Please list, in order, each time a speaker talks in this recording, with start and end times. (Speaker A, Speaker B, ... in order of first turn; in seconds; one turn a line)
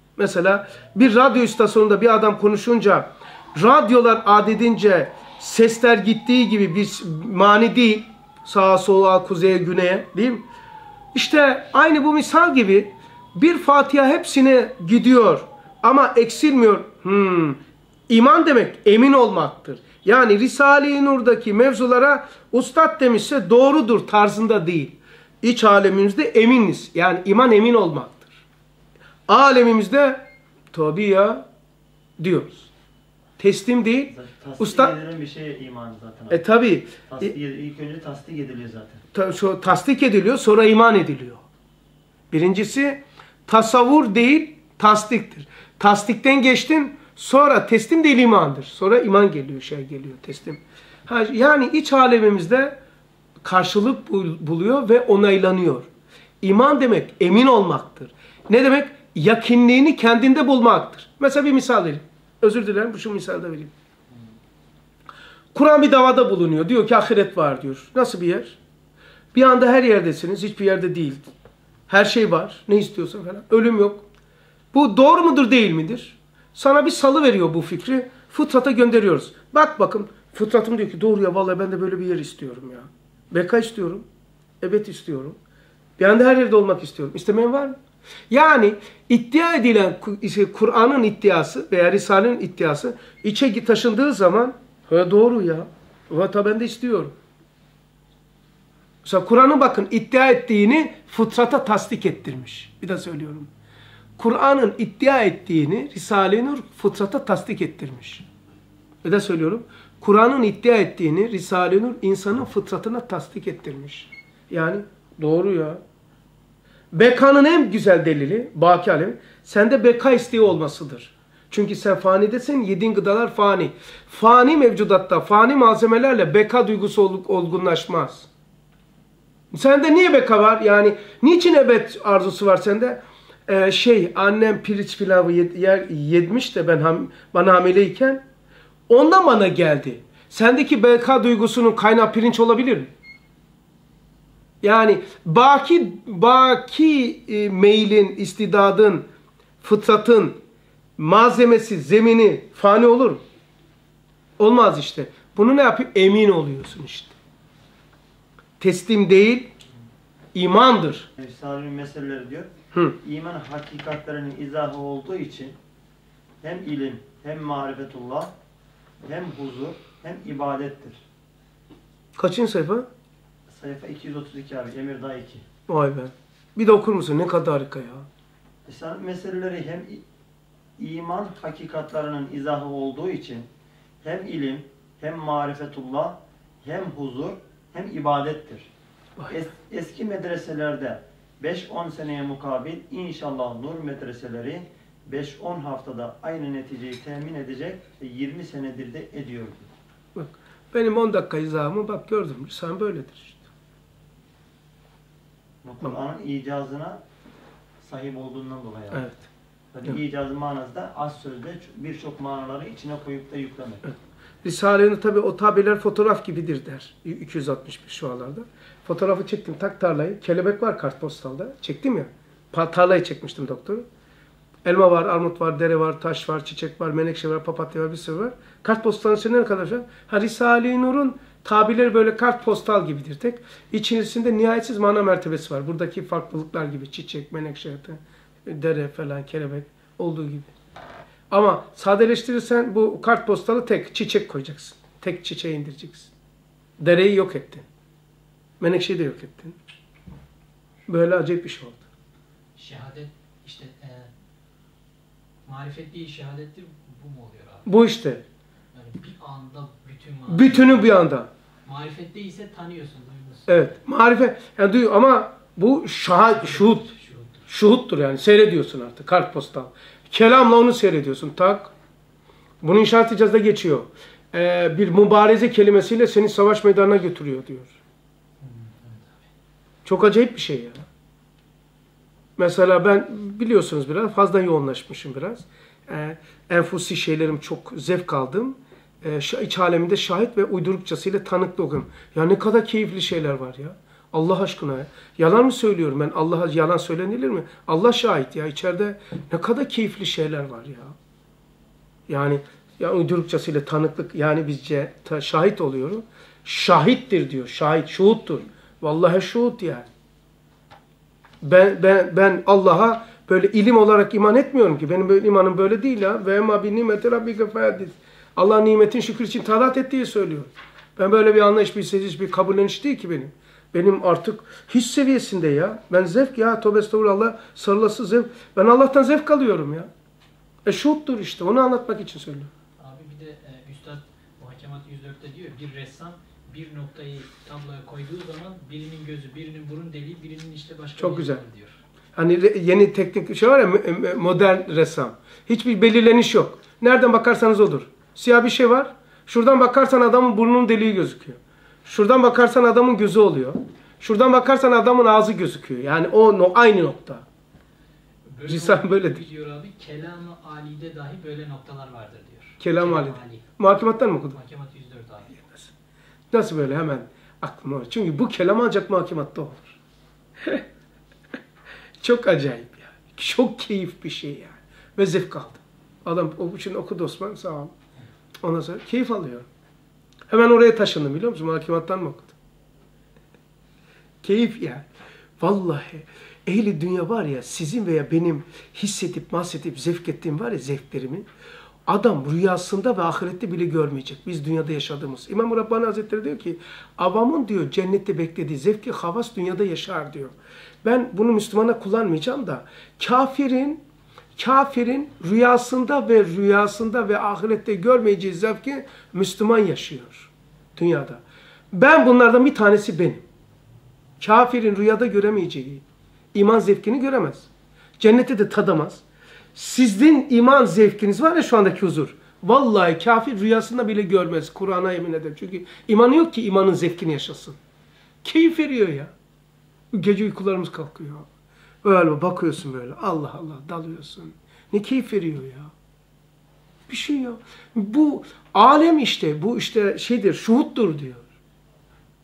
Speaker A: 0.2-10.5
Speaker A: 11.1-28.4
Speaker A: 29.3-31.4
Speaker A: 32.2-32.7
Speaker A: 33.4-34.9
Speaker B: 34.1-36.4
Speaker A: 36.3-37.3
Speaker B: 37.1-39.0
Speaker A: 39.1-41.4
Speaker A: 42.3-52.8
Speaker A: 53.4-55.9
Speaker A: 56.4-63.7
Speaker A: 65.5-68.6
Speaker A: 69.3-71.2
Speaker A: 71.9-74.0
Speaker A: 74.7-84.1
Speaker A: 84.6-85.4
Speaker A: 86.0-87.8
Speaker A: 88.3-97.1
Speaker A: 99.0-103.5
Speaker A: 104.2-108.2
Speaker A: 109.0-115.8
Speaker A: 116.9-128.3
Speaker A: 129.5-138.2
Speaker A: 138.9-142.9
Speaker A: 144.6-149.1
Speaker A: 149.6-150.4
Speaker A: 151.0-153.2
Speaker A: 154.4-157.2
Speaker A: 158.6-159.5
Speaker A: 160.3-161.1
Speaker B: 161.2-162.5
Speaker B: 163.0-165.6
Speaker B: 166.4-168.3
Speaker B: 169.0-171.0
Speaker A: 172.2-172.9
Speaker B: 173.5-175.4
Speaker A: 175.7-178.1
Speaker B: 178.7-180.0
Speaker B: 180.8-183.5
Speaker B: 184.0-188.7
Speaker B: 189.3-199.7
Speaker A: 200.2-203.4
Speaker B: 205.6-207.0
Speaker B: 207.8-209.1
Speaker A: 208.9-209.2
Speaker B: 209.7-213.9
Speaker A: 214.4-223.9
Speaker A: 224.7-240.5
Speaker A: 241.3-246.1
Speaker A: 246.8-247.7
Speaker A: 248.6-249.6
Speaker A: 250.9-251.8
Speaker C: 252.6-254.1
Speaker C: 255.5-257.7
Speaker A: 257.7-258.2
Speaker C: 258.7-261.0
Speaker A: 260.3-261.3
Speaker C: 261.6-263.7
Speaker A: 263.5-266.9
Speaker C: 266.3-267.5
Speaker A: 267.5-271.7
Speaker A: 272.6-277.7
Speaker C: 278.4-279.1
Speaker A: 279.9-280.9
Speaker A: 282.4-301.0
Speaker A: 302.1-309.9
Speaker A: 311.4-329.9
Speaker A: 330.7-332.5
Speaker C: 332.8-341.8
Speaker A: 341.0-341.4
Speaker A: 342.1-357.2
Speaker C: 358.3-363.4
Speaker A: 358.4-359.3
Speaker A: 362.6-364.4
Speaker C: 364.3-365.6
Speaker A: 366.3-369.8
Speaker A: 372.0-377.7
Speaker A: 378.4-379.5
Speaker A: 380.3-382.3
Speaker A: 384.2-384.9
Speaker A: 385.4-391.3
Speaker A: 391.9-400.3
Speaker A: 400.8-403.8
Speaker A: 404.4-411.2
Speaker A: 411.7-413.2
Speaker A: 414.2-417.5
Speaker A: 418.0-419.0
Speaker A: 419.6-427.6
Speaker A: 428.2-429.1
Speaker A: 429.9-431.3
Speaker A: 431.8-435.7
Speaker A: 436.9-441.2